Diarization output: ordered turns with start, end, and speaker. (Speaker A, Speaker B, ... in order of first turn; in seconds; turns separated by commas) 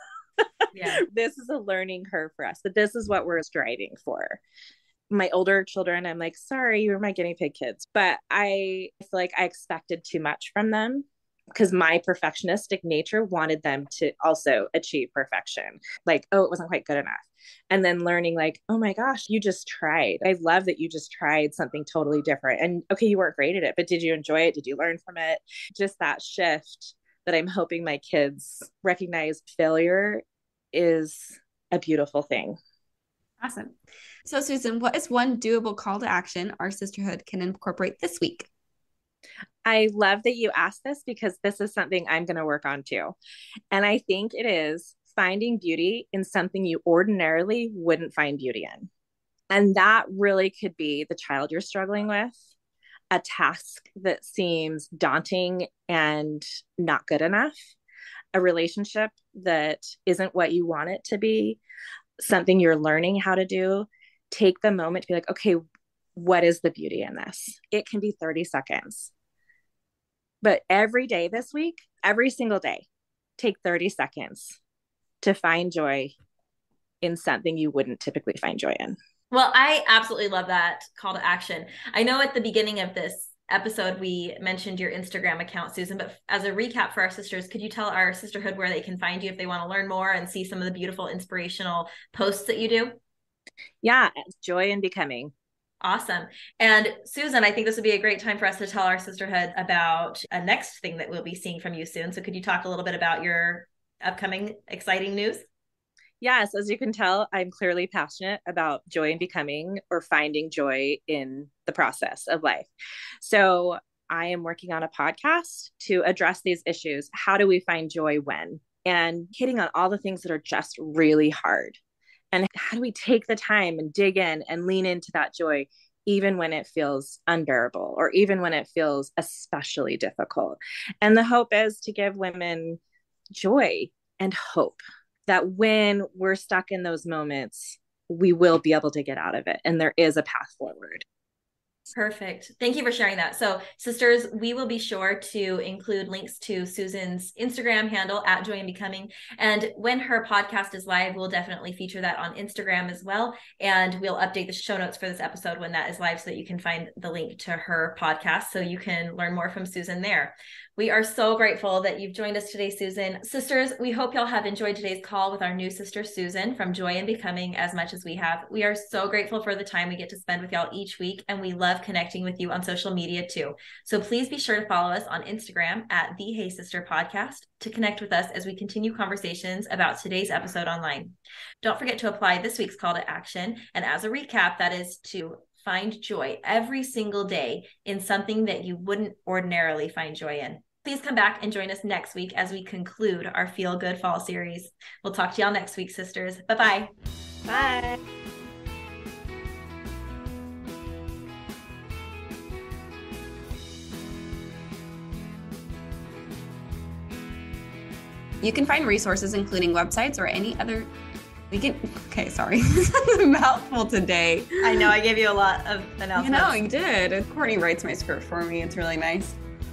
Speaker A: 0.4-4.4, Speaker B: 0.7-1.0, Speaker A: 5.1-32.6, Speaker C: 33.4-33.8, Speaker C: 34.3-38.5, Speaker A: 39.6-43.1, Speaker A: 43.7-48.9, Speaker A: 49.5-52.4, Speaker A: 53.1-57.7, Speaker A: 58.3-61.6, Speaker A: 62.2-65.6, Speaker A: 66.2-69.1, Speaker A: 70.4-72.8, Speaker A: 73.4-74.6, Speaker A: 75.2-76.2, Speaker A: 77.0-79.0, Speaker B: 79.3-93.0, Speaker A: 93.8-95.3, Speaker B: 95.8-105.4, Speaker A: 106.2-112.7, Speaker A: 113.2-121.8, Speaker A: 122.3-132.8, Speaker A: 133.3-141.1, Speaker B: 141.9-196.9, Speaker A: 197.5-198.0, Speaker C: 208.4-210.9, Speaker C: 211.5-214.9, Speaker B: 214.6-216.6, Speaker C: 216.2-219.4